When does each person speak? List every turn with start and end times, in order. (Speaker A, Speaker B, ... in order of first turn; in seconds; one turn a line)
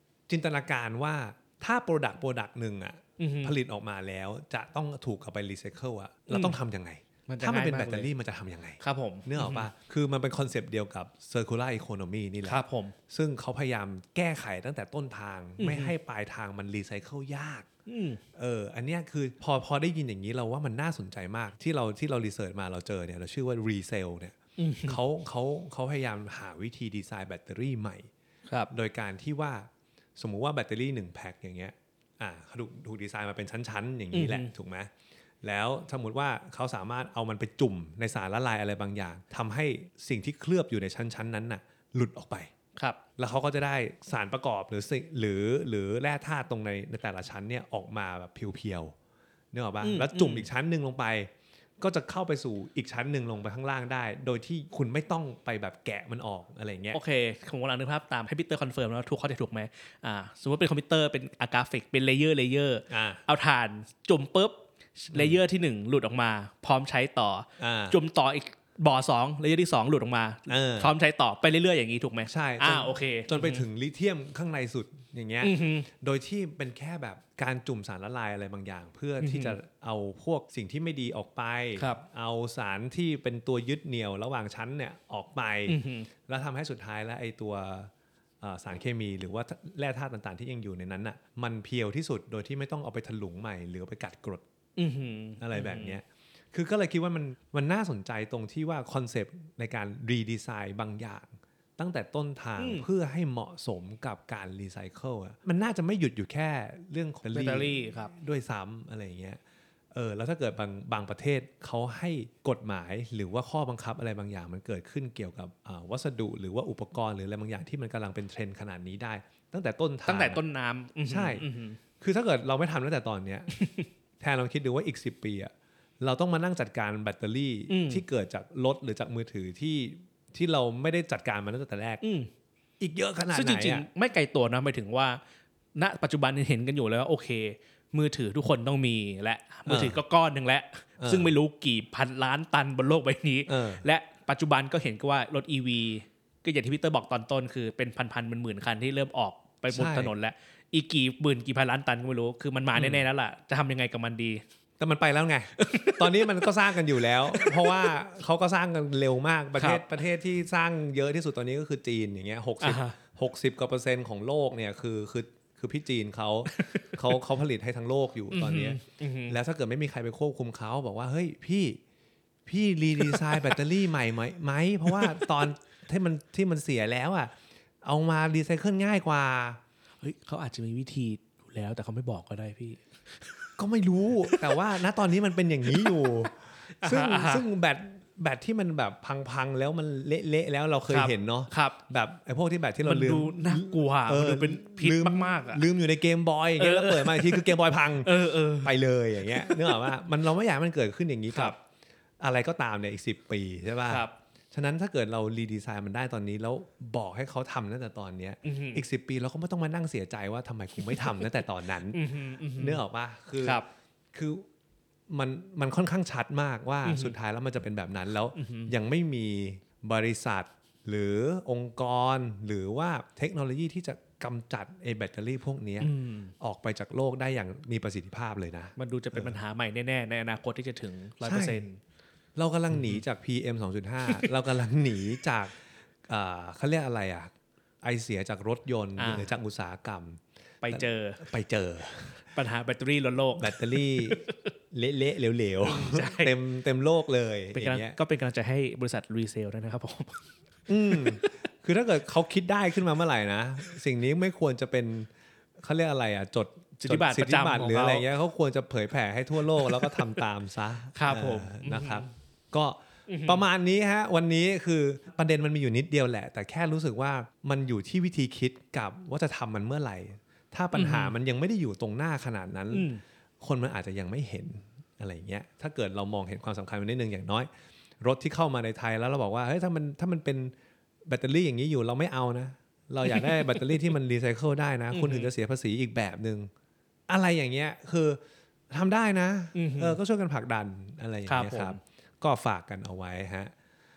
Speaker A: 0.3-17.7
Speaker B: 3.2-3.5
Speaker B: 6.3-6.6
Speaker B: 7.3-8.1
Speaker B: 8.8-9.7
Speaker B: 12.4-13.0
Speaker B: 15.6-15.9
Speaker B: 17.9-18.2
Speaker A: 18.4-28.1
Speaker B: 24.6-25.0
Speaker A: 28.7-34.9
Speaker B: 34.1-34.5
Speaker A: 35.4-42.5
Speaker A: 43.2-48.9
Speaker A: 49.5-57.0
Speaker B: 49.8-50.5
Speaker B: 56.9-73.7
Speaker A: 62.9-63.2
Speaker A: 65.1-65.4
Speaker A: 67.6-68.0
Speaker A: 70.5-70.9
Speaker A: 72.3-94.5
Speaker B: 75.4-75.9
Speaker B: 79.2-79.6
Speaker B: 85.7-86.1
Speaker B: 94.8-96.0
Speaker A: 95.4-109.4
Speaker B: 102.6-102.9
Speaker B: 107.3-108.1
Speaker A: 109.9-120.4
Speaker B: 120.1-121.8
Speaker A: 121.1-121.5
Speaker A: 122.0-123.5
Speaker B: 123.5-123.9
Speaker A: 124.2-132.0
Speaker B: 127.7-128.0
Speaker B: 132.0-132.3
Speaker A: 132.8-133.9
Speaker B: 133.3-135.2
Speaker B: 135.8-154.4
Speaker A: 139.7-140.0
Speaker A: 141.0-141.4
Speaker A: 143.5-143.9
Speaker A: 149.7-150.1
Speaker A: 152.7-153.0
Speaker A: 154.8-171.8
Speaker B: 155.6-157.9
Speaker B: 159.6-159.9
Speaker B: 162.6-163.0
Speaker B: 166.5-167.2
Speaker B: 168.3-169.4
Speaker A: 172.5-179.6
Speaker B: 173.0-173.6
Speaker B: 174.9-175.3
Speaker B: 180.0-183.5
Speaker A: 183.6-201.6
Speaker B: 184.3-184.6
Speaker B: 185.7-186.1
Speaker B: 186.7-187.4
Speaker B: 190.9-191.8
Speaker B: 192.8-195.6
Speaker B: 196.6-199.9
Speaker A: 202.2-213.6
Speaker B: 203.9-204.1
Speaker B: 208.4-208.8
Speaker B: 211.9-212.8
Speaker B: 213.4-213.7
Speaker A: 214.1-214.4
Speaker A: 215.1-229.4
Speaker B: 216.8-217.2
Speaker B: 218.3-218.7
Speaker B: 225.8-226.3
Speaker B: 228.8-231.8
Speaker A: 231.2-231.6
Speaker A: 232.4-242.3
Speaker B: 232.7-233.0
Speaker B: 239.0-239.3
Speaker B: 240.6-241.2
Speaker B: 242.3-244.4
Speaker A: 243.4-248.0
Speaker B: 245.6-246.3
Speaker B: 247.5-250.2
Speaker A: 250.7-272.9
Speaker B: 250.9-251.3
Speaker B: 256.8-258.1
Speaker B: 259.6-260.1
Speaker B: 260.9-262.1
Speaker B: 263.1-263.4
Speaker B: 270.7-271.1
Speaker B: 272.7-273.0
Speaker A: 273.4-277.5
Speaker A: 278.0-280.5
Speaker A: 281.1-286.5
Speaker B: 283.1-283.9
Speaker B: 284.9-285.3
Speaker A: 287.1-288.2
Speaker A: 288.7-293.5
Speaker B: 289.6-290.0
Speaker B: 291.3-291.8